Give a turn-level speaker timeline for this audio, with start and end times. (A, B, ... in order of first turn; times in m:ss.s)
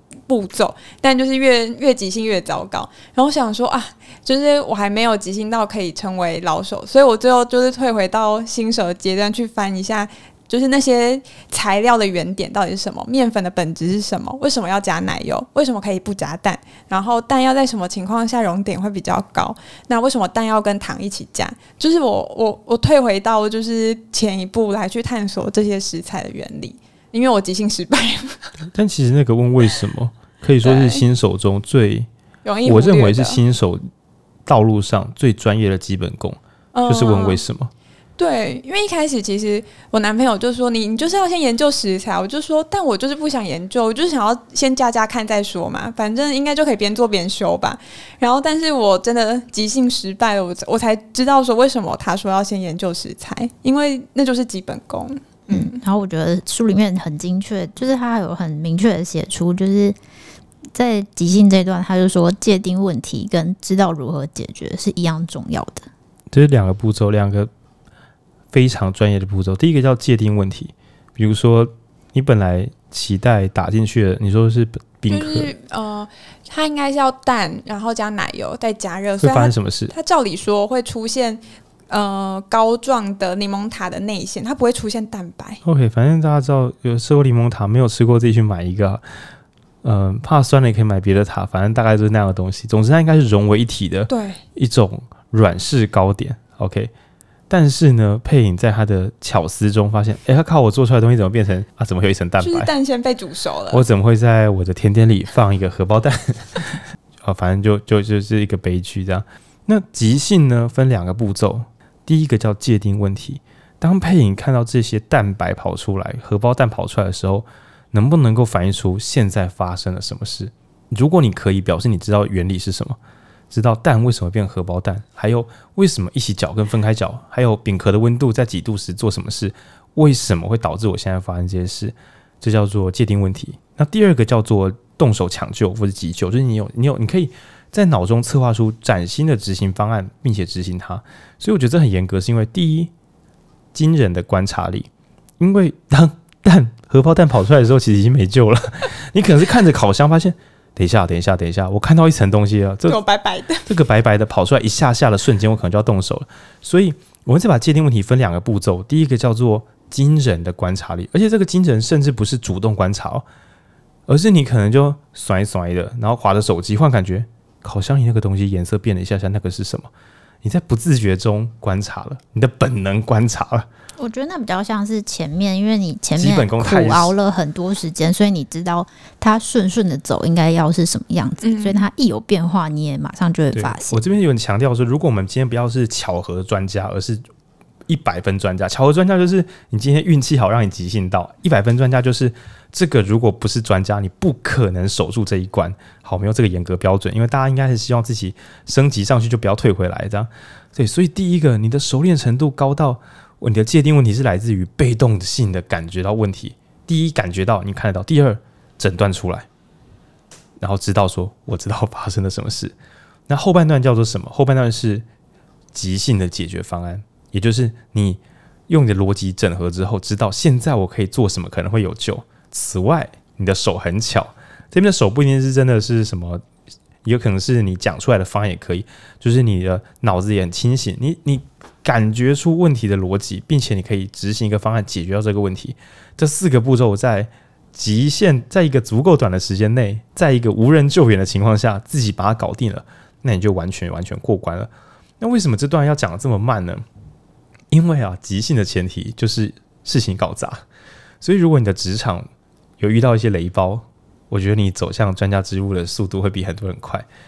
0:00.3-0:28.5 A
0:28.7-0:32.1 B
0:30.6-0:31.0 A
0:32.4-0:33.4 A
0:32.6-0:33.8 B
0:34.5-0:37.7 B
0:36.7-0:37.4 A
0:38.2-0:55.8 A
0:55.5-1:00.0 C
1:00.7-1:05.9 C
1:06.3-1:07.5 B
1:08.5-1:15.5 B
1:15.1-1:25.6 A
1:19.2-1:19.9 B
1:25.6-1:29.0 B
1:29.8-1:36.9 B
1:34.1-1:34.4 A
1:37.5-1:42.7 B
1:42.4-1:43.8 A
1:43.7-2:03.0 B
2:03.5-2:22.9 B
2:23.7-2:33.0 B
2:32.9-2:33.7 A
2:33.7-2:43.2 B
2:44.1-2:49.9 B
2:50.4-2:53.7 B
2:54.0-3:04.0 C
2:56.2-2:57.2 B
3:01.4-3:01.8 A
3:03.5-3:07.2 B
3:07.9-3:29.5 B
3:30.6-3:32.7 B
3:33.3-3:35.0 B
3:35.7-3:46.4 B
3:47.0-4:06.8 B
4:07.7-4:10.6 B
4:11.2-4:12.3 B
4:12.8-4:17.1 B